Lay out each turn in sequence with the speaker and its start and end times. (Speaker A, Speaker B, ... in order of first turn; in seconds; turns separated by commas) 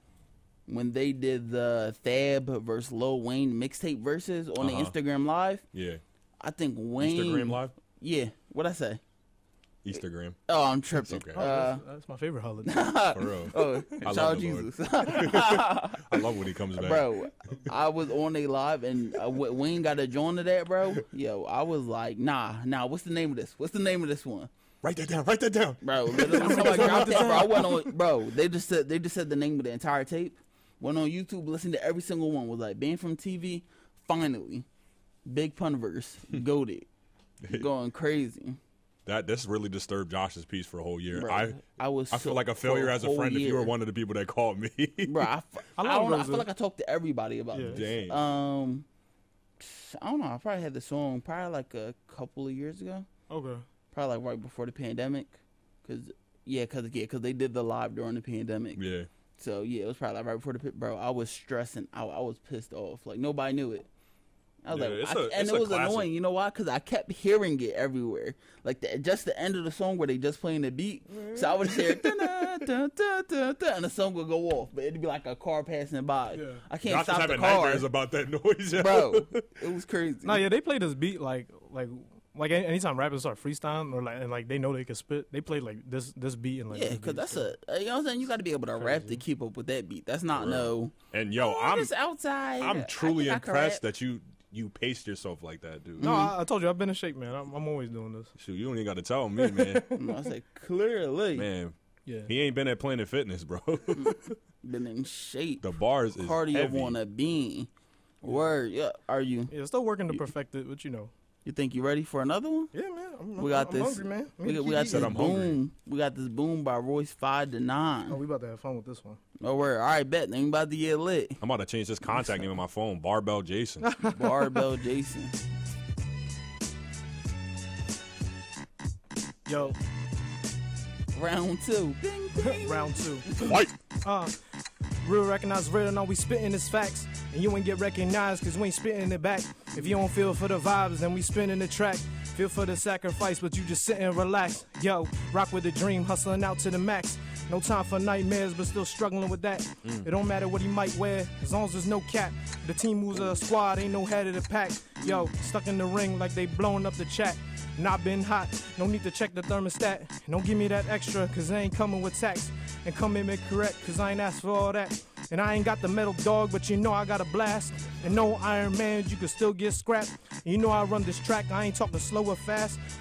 Speaker A: 0.7-5.7, Speaker B: 4.6-5.0, Speaker B: 5.7-6.0, Speaker A: 6.4-9.0, Speaker B: 7.0-7.7, Speaker B: 9.8-10.4, Speaker A: 10.5-11.8, Speaker B: 11.0-11.4, Speaker C: 11.3-12.9, Speaker A: 12.6-16.2, Speaker B: 13.1-17.1, Speaker A: 16.8-24.5, Speaker B: 24.8-27.7, Speaker A: 25.8-34.6, Speaker C: 26.2-27.8, Speaker A: 35.2-36.9, Speaker A: 37.5-38.6, Speaker B: 39.1-45.3, Speaker A: 41.1-43.7, Speaker A: 45.0-48.9, Speaker C: 45.8-46.5, Speaker C: 47.5-47.8, Speaker B: 47.7-48.2, Speaker A: 49.6-53.1, Speaker C: 53.3-53.7, Speaker A: 53.9-58.8, Speaker B: 58.8-59.1, Speaker A: 59.4-63.9, Speaker A: 64.6-77.9, Speaker B: 64.7-66.1, Speaker B: 71.1-72.6, Speaker C: 76.3-76.6, Speaker B: 76.8-79.5, Speaker A: 78.7-80.4, Speaker C: 80.2-87.5, Speaker A: 86.7-93.8, Speaker C: 88.8-89.2, Speaker B: 90.3-91.9, Speaker B: 92.6-96.3, Speaker A: 96.0-96.3, Speaker C: 96.0-98.3, Speaker B: 98.4-99.9, Speaker C: 99.4-100.2, Speaker A: 99.9-101.5, Speaker B: 101.3-101.8, Speaker C: 102.1-102.3, Speaker B: 102.3-104.4, Speaker A: 103.9-105.7, Speaker B: 105.6-107.0, Speaker A: 106.2-107.7, Speaker A: 108.2-109.5, Speaker C: 109.5-111.1, Speaker A: 111.5-112.7, Speaker C: 112.7-115.2, Speaker A: 113.4-118.2, Speaker B: 114.9-115.6, Speaker C: 118.1-119.2, Speaker A: 119.4-121.4, Speaker B: 121.4-123.9, Speaker C: 123.8-124.6, Speaker A: 124.1-125.4, Speaker C: 129.5-129.8, Speaker A: 131.1-133.6, Speaker C: 132.4-133.5, Speaker B: 133.4-133.7, Speaker C: 134.0-134.4, Speaker C: 135.0-172.8, Speaker A: 155.0-155.3